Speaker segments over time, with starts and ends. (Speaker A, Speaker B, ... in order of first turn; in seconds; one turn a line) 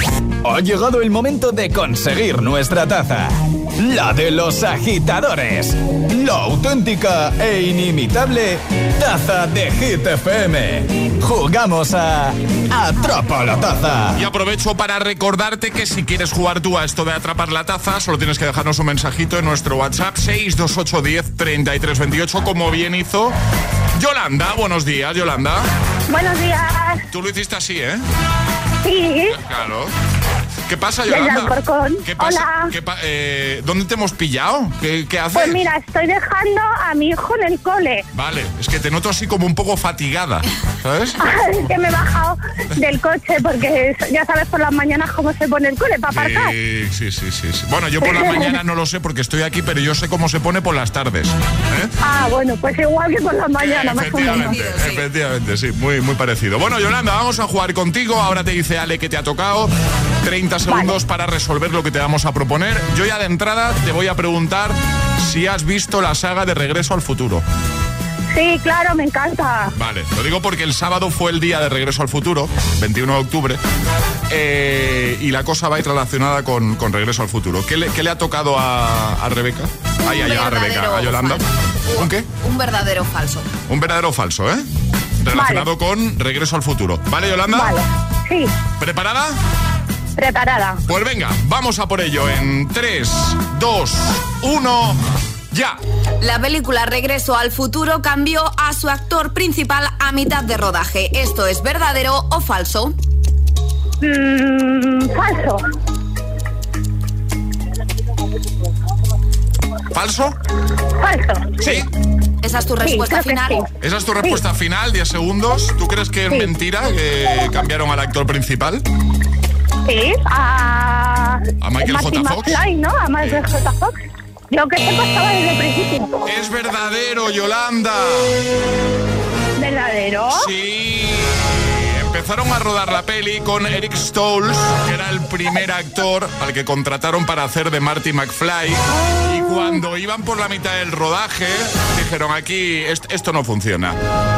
Speaker A: 0.4-14.2
Speaker B: 14.2-23.4
Speaker B: 24.0-25.6
Speaker C: 26.1-27.0
Speaker B: 27.1-28.0
Speaker C: 28.8-29.4
Speaker B: 29.3-29.9
Speaker B: 30.7-35.6
Speaker C: 31.1-32.7
Speaker C: 35.3-38.0
Speaker B: 38.1-41.2
Speaker C: 41.2-46.5
Speaker B: 46.1-51.9
Speaker C: 48.0-48.5
Speaker C: 52.0-54.6
Speaker B: 53.6-59.7
Speaker D: 54.2-55.1
Speaker B: 60.2-67.4
Speaker C: 68.3-69.7
Speaker B: 69.7-73.6
Speaker B: 74.3-81.4
Speaker D: 80.1-83.5
Speaker B: 82.0-82.3
Speaker B: 83.7-84.7
Speaker B: 85.2-87.8
Speaker C: 85.3-85.7
Speaker C: 87.5-88.5
Speaker B: 88.8-89.4
Speaker C: 90.2-90.8
Speaker B: 90.9-95.0
Speaker B: 95.5-95.8
Speaker D: 96.2-103.0
Speaker C: 104.0-105.6
Speaker B: 109.9-110.4
Speaker C: 111.0-111.6
Speaker B: 111.6-111.9
Speaker D: 112.4-113.6
Speaker C: 112.8-113.7
Speaker B: 113.8-118.8
Speaker C: 119.9-123.9
Speaker B: 121.6-122.6
Speaker B: 123.2-123.4
Speaker C: 124.5-126.1
Speaker B: 126.3-128.4
Speaker C: 129.6-130.5
Speaker B: 130.3-144.0
Speaker C: 139.4-139.8